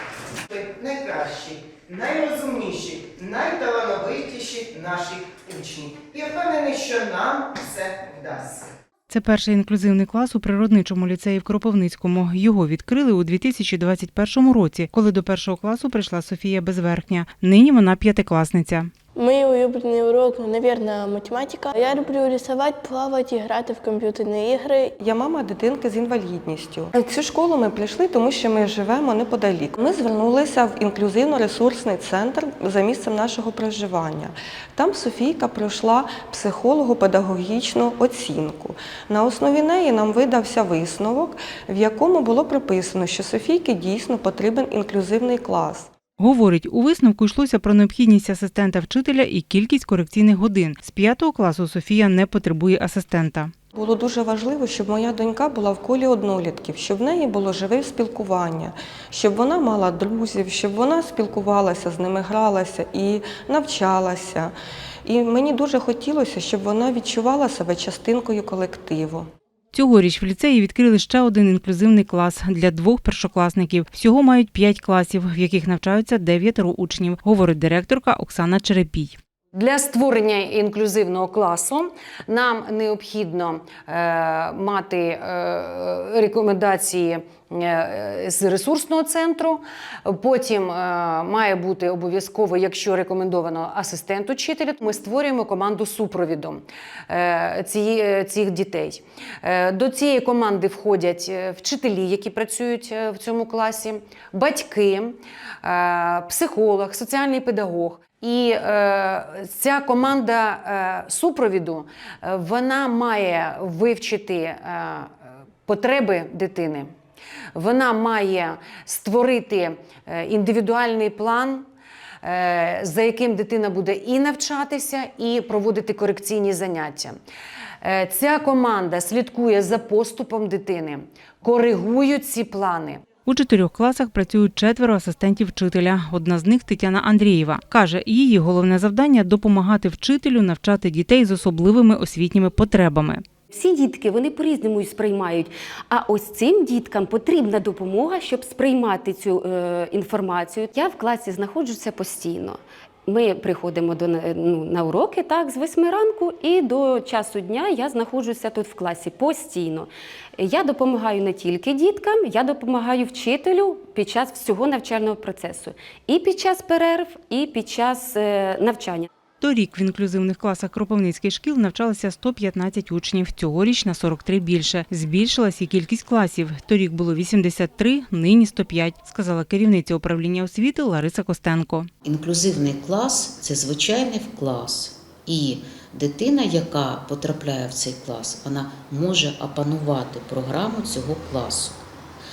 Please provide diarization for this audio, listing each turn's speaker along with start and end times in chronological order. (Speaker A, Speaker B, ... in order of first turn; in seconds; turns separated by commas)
Speaker A: 0.5-8.7, Speaker B: 9.1-18.9, Speaker C: 19.2-24.9, Speaker D: 25.0-45.9, Speaker B: 46.2-53.5, Speaker D: 53.7-64.5, Speaker D: 65.0-69.3, Speaker B: 69.7-79.2, Speaker E: 79.5-116.9, Speaker E: 117.5-121.6, Speaker E: 122.2-127.2, Speaker E: 127.8-133.0, Speaker B: 133.3-143.2, Speaker F: 143.5-169.1, Speaker B: 169.4-181.9, Speaker G: 182.0-191.8